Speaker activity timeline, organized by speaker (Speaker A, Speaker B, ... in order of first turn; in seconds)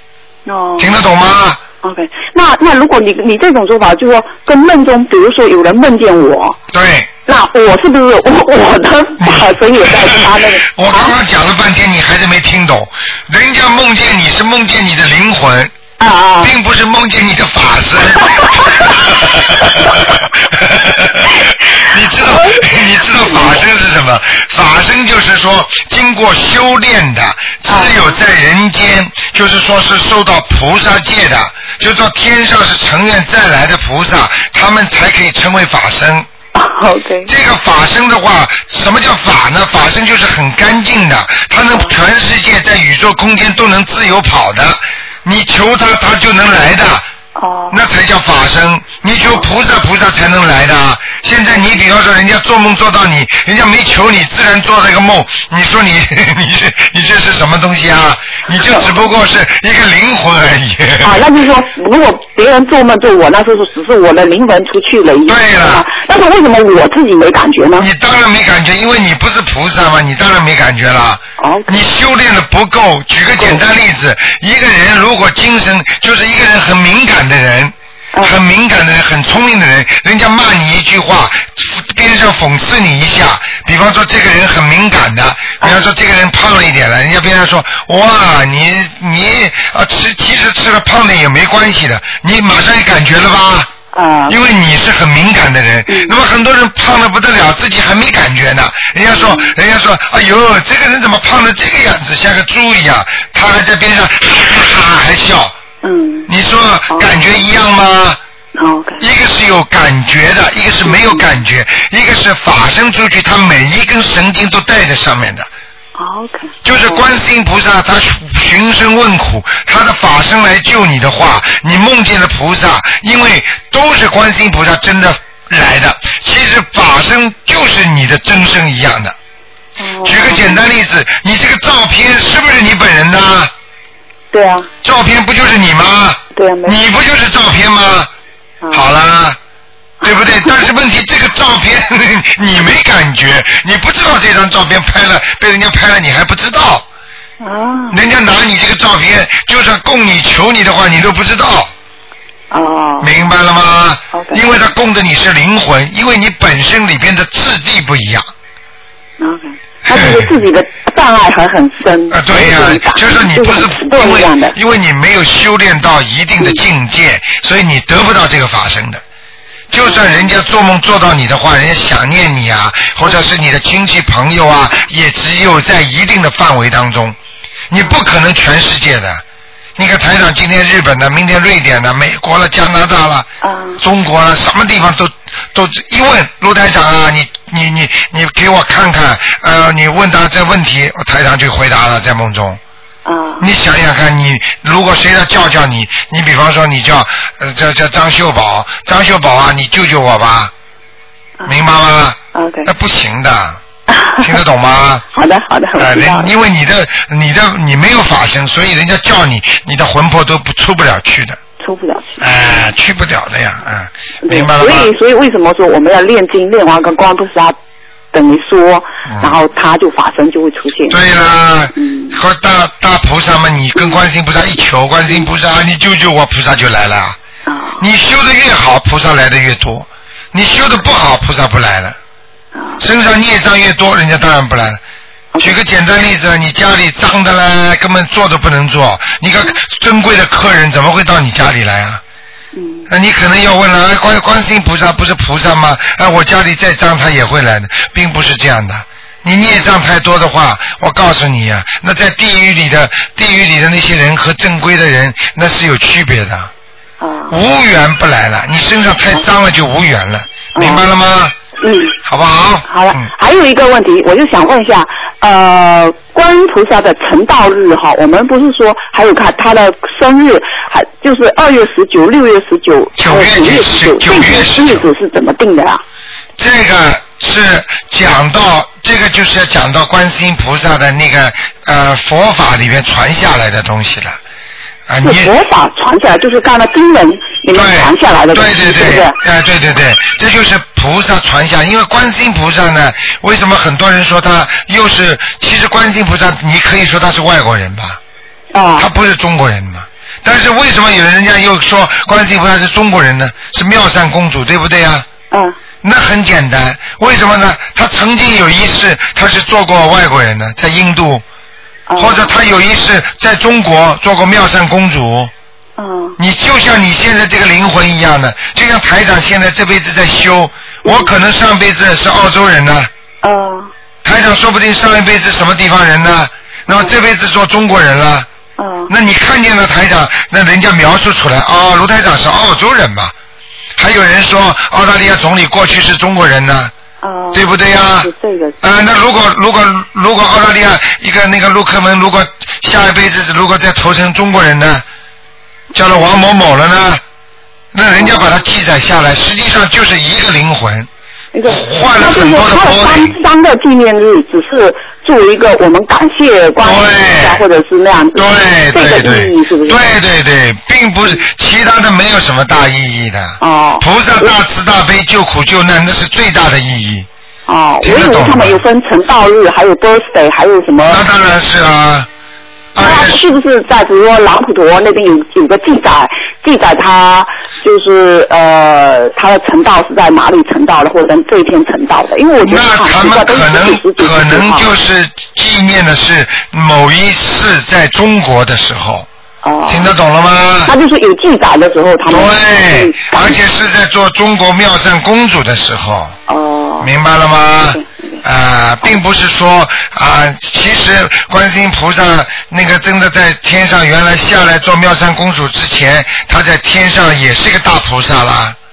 Speaker A: 0.5-0.9, 1.8-6.6, 7.3-11.1, 16.0-16.5, 18.4-18.9, 22.2-23.6, 27.7-28.2, 36.5-37.3, 47.4-47.8, 58.5-58.9, 61.0-67.9, 71.4-71.8, 93.9-94.4, 95.9-96.2, 99.1-99.5, 105.8-106.3, 108.5-109.0, 110.8-111.2, 116.0-117.1, 129.8-130.6, 134.3-134.7, 136.3-136.8, 140.0-140.7, 147.4-148.0, 152.5-153.1, 154.1-154.4, 159.2-164.6, 169.8-170.3, 183.4-183.8, 193.1-193.5, 202.3-202.7, 203.9-204.4, 205.1-206.3, 211.6-212.7, 214.2-217.6, 218.1-221.0, 221.8-222.2, 227.5-227.8, 232.5-232.8, 242.5-242.9, 249.4-249.7, 257.0-257.4, 260.6-260.8, 261.6-262.0, 262.7-275.8, 285.0-289.1, 298.5-298.9, 305.3-305.6, 311.9-312.4, 315.8-316.2, 323.2-323.7, 328.6-328.9, 337.0-338.6, 345.9-346.3, 347.9-348.3, 351.3-359.9, 363.4-364.3, 367.5-371.0, 372.8-384.7, 389.4-389.9, 390.6-393.4, 396.3-396.9, 397.7-398.2
Speaker B: 0.8-1.6, 6.7-7.1, 9.2-15.7, 16.4-36.3, 37.3-47.0, 47.7-61.3, 65.2-65.9, 67.8-93.7, 94.3-105.5, 106.3-108.2, 109.0-115.5, 116.6-129.1, 130.0-133.5, 134.8-138.1, 138.7-139.4, 140.0-146.8, 147.9-151.7, 153.0-158.3, 159.9-160.4, 162.1-169.0, 169.7-177.2, 177.7-179.2, 179.8-192.6, 193.4-200.5, 201.4-203.6, 204.2-205.1, 205.8-211.4, 212.2-214.9, 219.1-219.4, 220.9-227.2, 227.8-232.0, 232.8-234.8, 235.4-242.0, 242.9-256.5, 257.3-261.4, 262.1-263.1, 273.0-274.9, 276.4-284.2, 284.9-285.3, 287.5-298.0, 298.8-305.1, 305.8-311.2, 312.0-315.3, 316.2-322.9, 324.0-328.3, 328.9-333.1, 333.8-336.7, 337.3-338.1, 338.6-344.9, 345.7-347.0, 347.7-350.9, 351.5-353.2, 356.6-357.4, 358.1-367.1, 367.8-368.6, 370.9-372.1, 372.8-373.2, 382.4-389.1, 389.6-390.8, 392.1-396.2, 396.8-408.6